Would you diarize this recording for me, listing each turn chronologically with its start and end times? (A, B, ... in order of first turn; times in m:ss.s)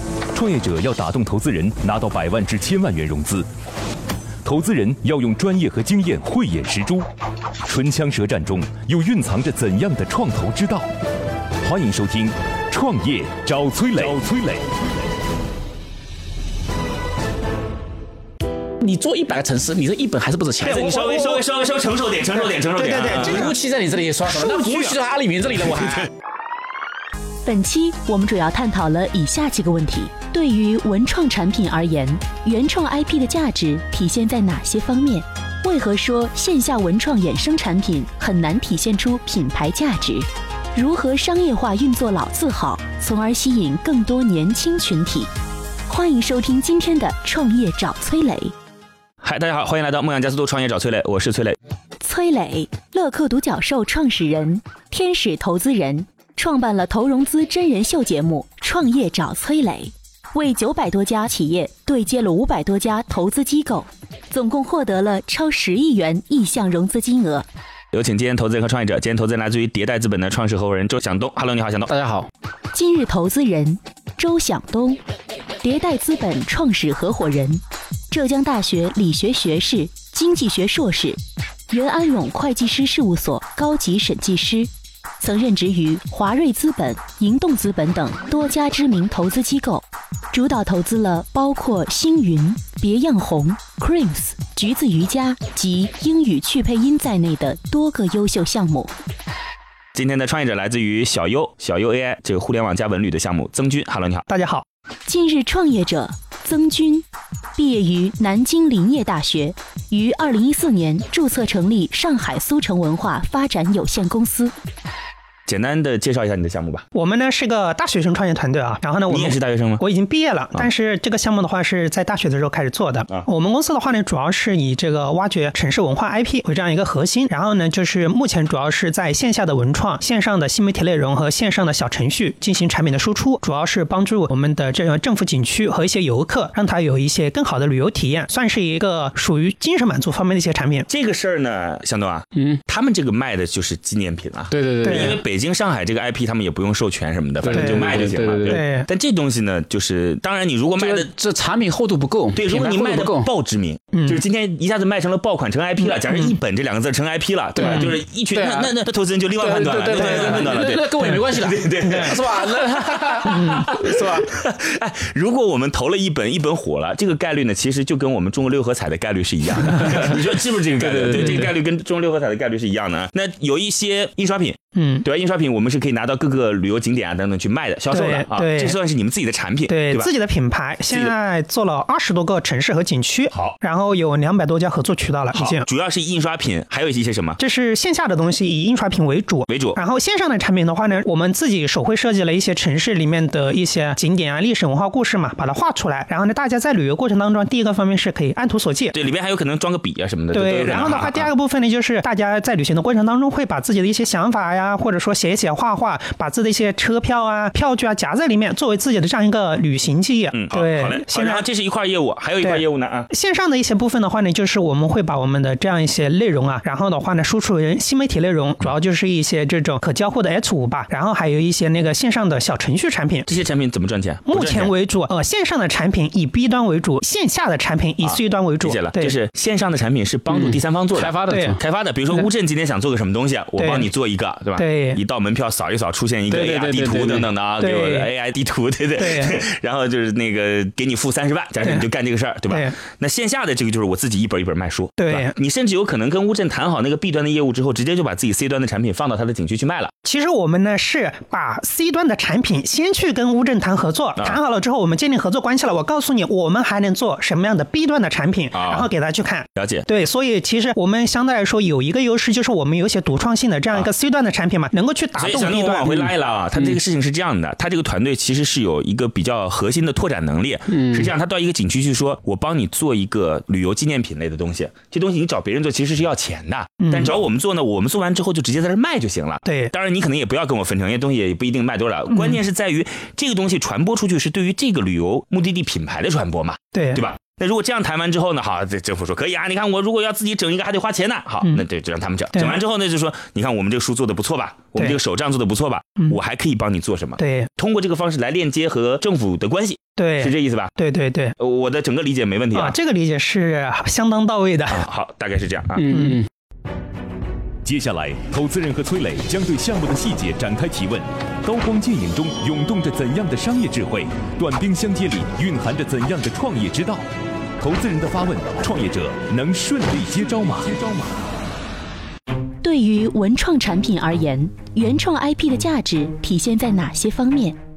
0:00.3-0:03.5 A
0:04.4-0:07.1 A
0:07.7-0:10.9 A
0:11.6-0:14.6 A
0:18.8-0:20.9 B
0:20.6-0:23.6 C
0:20.8-0:21.4 D
0:22.4-0:23.5 D
0:23.0-0:26.1 B
0:27.4-0:45.3 E
0:45.9-0:48.5 E
0:49.2-0:51.6 C
0:52.0-1:07.5 E
1:07.9-1:11.9 C
1:11.9-1:12.3 B
1:12.7-1:15.0 E
1:15.6-1:21.2 E
1:21.7-1:38.9 E
1:40.0-1:44.2 C
1:44.3-1:44.6 D
1:45.1-1:47.0 E
1:47.6-1:54.5 E
1:55.5-1:56.8 C
1:56.9-2:20.9 D
1:59.1-1:59.8 C
2:20.9-2:31.1 C
2:22.4-2:22.6 B
2:24.5-2:25.2 B
2:24.8-2:25.2 D
2:27.4-2:28.6 B
2:27.5-2:28.9 D
2:30.8-2:33.3 B
2:32.4-3:00.1 C
2:33.9-2:34.2 D
2:35.8-2:36.4 D
2:37.6-2:38.7 B
2:37.6-2:37.9 D
2:39.4-2:44.3 B
2:50.8-2:51.5 B
2:54.8-2:55.1 D
2:57.9-2:58.8 D
2:59.7-3:05.7 D
3:00.9-3:01.1 C
3:03.3-3:03.6 C
3:05.3-3:07.4 C
3:07.4-3:19.0 D
3:09.5-3:09.8 C
3:18.9-3:21.3 C
3:20.3-3:31.4 D
3:30.3-3:33.1 C
3:32.4-3:43.3 D
3:43.3-3:44.7 C
3:44.3-3:49.2 D
3:48.0-4:09.9 C
3:50.3-3:51.6 B
3:51.3-3:51.6 D
3:53.6-3:53.9 D
3:54.6-3:55.0 D
3:56.3-3:57.3 B
3:57.6-3:58.1 D
3:59.0-3:59.4 D
4:02.5-4:02.8 D
4:05.0-4:05.3 D
4:10.0-4:26.0 D
4:18.5-4:18.9 C
4:19.6-4:19.9 C
4:25.2-5:00.7 C
4:25.9-4:26.8 B
4:30.7-4:31.1 B
4:36.8-4:37.2 D
4:39.4-4:39.7 D
4:42.1-4:42.4 D
4:46.7-4:47.0 D
4:52.3-4:52.6 D
4:57.2-4:57.5 D
5:00.0-5:01.4 D
5:01.4-5:02.8 C
5:02.5-5:04.8 D
5:04.7-5:05.9 C
5:05.8-5:06.3 B
5:05.9-5:06.2 D
5:07.6-5:17.0 A
5:17.6-5:21.1 A
5:22.6-5:27.6 E